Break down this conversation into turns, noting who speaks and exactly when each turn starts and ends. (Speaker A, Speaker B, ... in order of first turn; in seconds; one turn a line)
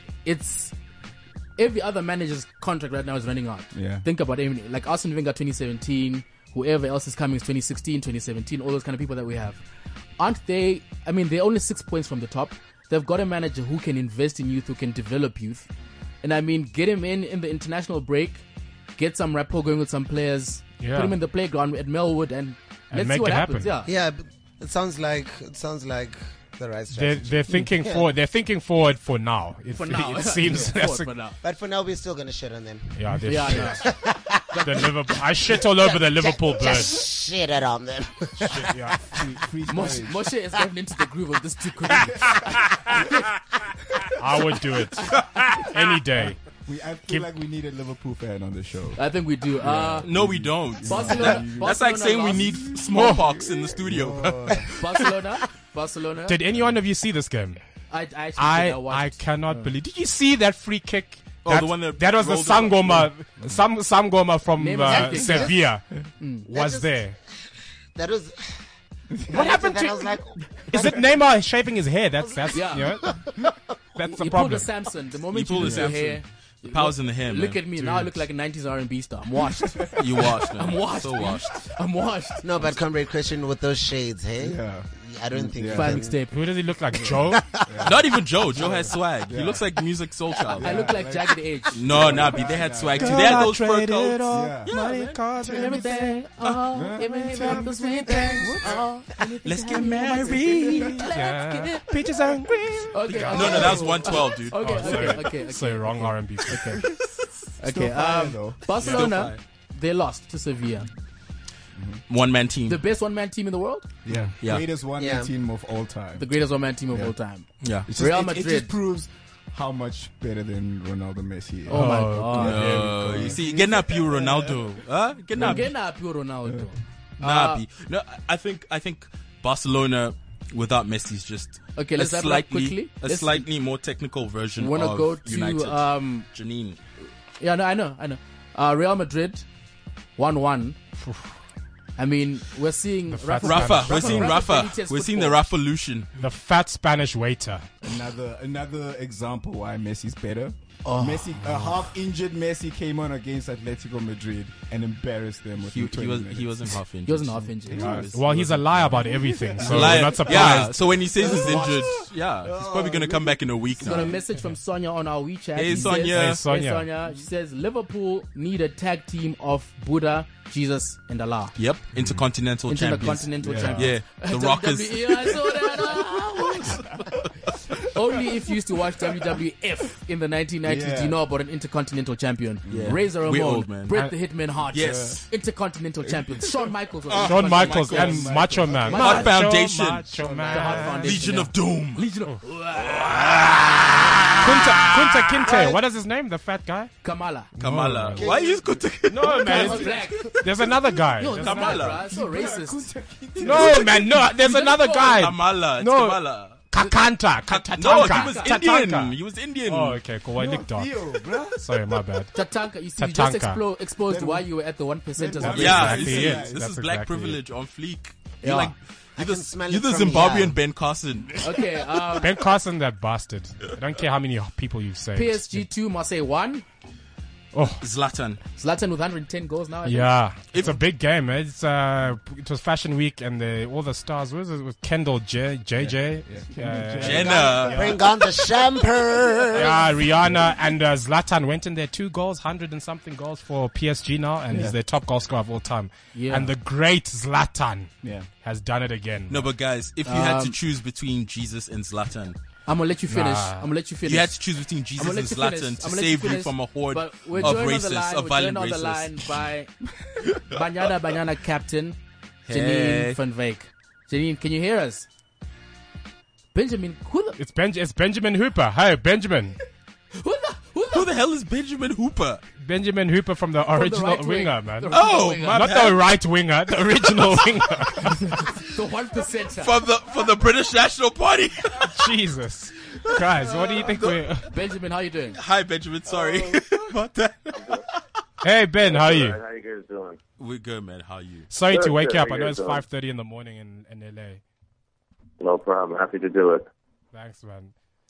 Speaker A: 0.2-0.8
Speaker A: 1.6-9.6
Speaker B: 3.7-4.1
Speaker A: 10.2-15.7
Speaker A: 16.2-18.4
Speaker A: 19.0-23.9
Speaker C: 20.8-21.2
Speaker C: 22.9-23.7
Speaker D: 23.9-28.1
Speaker C: 26.9-31.1
Speaker A: 29.8-31.4
Speaker D: 31.4-34.8
Speaker C: 33.0-34.0
Speaker A: 33.3-33.9
Speaker C: 34.6-37.0
Speaker D: 35.6-38.7
Speaker C: 38.4-39.2
Speaker B: 39.1-40.3
Speaker A: 39.7-42.6
Speaker C: 44.2-46.4
Speaker B: 46.2-49.0
Speaker A: 49.0-50.1
Speaker B: 49.6-54.7
Speaker E: 50.0-54.7
Speaker A: 50.8-52.7
Speaker C: 52.9-53.3
Speaker A: 54.7-56.4
Speaker C: 56.3-57.6
Speaker A: 57.9-59.8
Speaker C: 58.4-65.9
Speaker E: 61.4-63.1
Speaker B: 63.4-63.7
Speaker A: 64.6-65.6
Speaker A: 66.2-66.5
Speaker C: 66.5-67.2
Speaker D: 66.5-67.1
Speaker D: 68.0-68.6
Speaker D: 69.3-71.2
Speaker C: 69.3-70.2
Speaker C: 70.7-73.3
Speaker D: 72.2-73.5
Speaker A: 72.5-73.0
Speaker C: 74.0-74.7
Speaker A: 74.0-80.0
Speaker E: 75.3-77.7
Speaker B: 75.6-76.0
Speaker E: 80.0-81.4
Speaker A: 80.5-82.5
Speaker D: 82.4-86.2
Speaker B: 84.4-86.2
Speaker A: 85.7-86.4
Speaker C: 86.2-87.6
Speaker D: 87.0-87.6
Speaker B: 87.7-89.8
Speaker E: 87.8-90.9
Speaker B: 90.5-93.7
Speaker A: 90.6-91.9
Speaker E: 91.7-95.2
Speaker C: 93.0-96.2
Speaker B: 94.3-94.7
Speaker B: 95.4-95.8
Speaker A: 95.5-101.9
Speaker B: 96.7-98.9
Speaker E: 99.4-101.1
Speaker C: 101.1-103.9
Speaker B: 102.7-103.8
Speaker A: 102.9-106.8
Speaker E: 103.1-105.3
Speaker C: 104.6-106.8
Speaker B: 106.7-107.0
Speaker B: 107.6-108.7
Speaker A: 107.6-110.9
Speaker C: 108.8-109.2
Speaker E: 108.8-109.4
Speaker B: 111.8-112.0
Speaker E: 112.1-112.8
Speaker A: 112.7-113.9
Speaker B: 114.0-116.3
Speaker D: 115.0-115.3
Speaker A: 116.2-118.7
Speaker B: 116.9-117.2
Speaker E: 117.6-117.9
Speaker B: 117.9-124.8
Speaker A: 121.7-122.7
Speaker C: 121.7-123.4
Speaker E: 122.4-125.7
Speaker B: 125.3-125.7
Speaker A: 125.4-127.6
Speaker E: 127.2-136.8
Speaker A: 131.8-133.5
Speaker A: 134.6-136.3
Speaker A: 137.4-139.5
Speaker A: 140.2-140.8
Speaker C: 141.0-141.3
Speaker A: 142.0-145.4
Speaker C: 143.1-144.4
Speaker E: 143.4-146.1
Speaker C: 146.2-147.7
Speaker B: 147.8-156.8
Speaker A: 150.8-151.8
Speaker E: 155.7-158.9
Speaker A: 157.1-158.0
Speaker B: 157.7-164.2
Speaker C: 157.8-160.8
Speaker E: 159.6-164.2
Speaker A: 163.8-171.6
Speaker E: 165.6-166.4
Speaker C: 165.9-166.9
Speaker E: 171.6-175.5
Speaker B: 171.9-172.2
Speaker A: 172.7-177.2
Speaker B: 173.4-173.9
Speaker C: 173.5-173.8
Speaker B: 176.6-177.2
Speaker A: 177.9-189.3
Speaker B: 180.6-181.2
Speaker B: 182.7-183.1
Speaker E: 182.7-183.9
Speaker C: 183.9-184.3
Speaker E: 184.7-185.2
Speaker B: 184.7-185.2
Speaker B: 186.0-186.7
Speaker E: 187.1-190.1
Speaker C: 187.2-191.4
Speaker B: 187.9-189.4
Speaker B: 190.2-190.9
Speaker A: 190.5-195.6
Speaker E: 190.8-192.1
Speaker E: 192.9-194.9
Speaker C: 194.4-196.9
Speaker A: 197.0-197.5
Speaker E: 197.6-199.8
Speaker B: 197.6-198.2
Speaker C: 197.6-198.3
Speaker D: 198.2-198.9
Speaker C: 199.1-202.1
Speaker B: 199.4-201.2
Speaker A: 199.5-200.2
Speaker A: 201.2-205.3
Speaker E: 201.4-202.1
Speaker B: 201.9-204.2
Speaker C: 203.4-212.3
Speaker E: 203.5-206.7
Speaker E: 207.5-210.0
Speaker A: 207.8-208.6
Speaker B: 210.3-212.2
Speaker A: 212.3-216.1
Speaker C: 213.0-213.6
Speaker B: 214.1-214.5
Speaker B: 215.2-216.7
Speaker C: 215.4-217.4
Speaker E: 215.4-221.4
Speaker A: 218.4-218.7
Speaker D: 219.2-220.6
Speaker A: 221.4-222.3
Speaker C: 222.2-225.7
Speaker A: 225.2-226.7
Speaker C: 227.5-227.8
Speaker E: 227.8-228.4
Speaker A: 228.6-230.2
Speaker C: 229.8-237.8
Speaker E: 230.5-230.8
Speaker B: 235.8-238.1
Speaker E: 237.0-237.9
Speaker D: 237.5-239.9
Speaker C: 239.5-249.5
Speaker B: 240.2-240.5
Speaker B: 244.5-244.8
Speaker A: 246.1-246.5
Speaker B: 248.0-248.3
Speaker E: 249.3-252.4
Speaker A: 250.1-250.6
Speaker A: 252.7-254.4
Speaker C: 253.1-253.7
Speaker E: 254.0-259.2
Speaker A: 255.0-259.8
Speaker B: 257.4-257.7
Speaker A: 260.5-262.0
Speaker E: 262.5-263.2
Speaker A: 262.5-265.1
Speaker A: 266.5-267.4
Speaker C: 267.4-269.6
Speaker A: 270.1-271.1
Speaker E: 270.9-272.4
Speaker C: 272.6-278.5
Speaker A: 273.7-275.8
Speaker E: 274.9-276.2
Speaker A: 278.3-279.8
Speaker E: 279.6-282.0
Speaker C: 281.9-284.5
Speaker E: 283.0-284.2
Speaker A: 284.5-285.4
Speaker E: 285.3-287.9
Speaker B: 286.4-286.9
Speaker F: 287.5-287.8
Speaker C: 288.4-289.4
Speaker F: 288.8-290.2
Speaker E: 290.4-291.5
Speaker C: 291.5-294.4
Speaker F: 291.6-292.8
Speaker F: 295.4-296.7
Speaker C: 297.1-297.7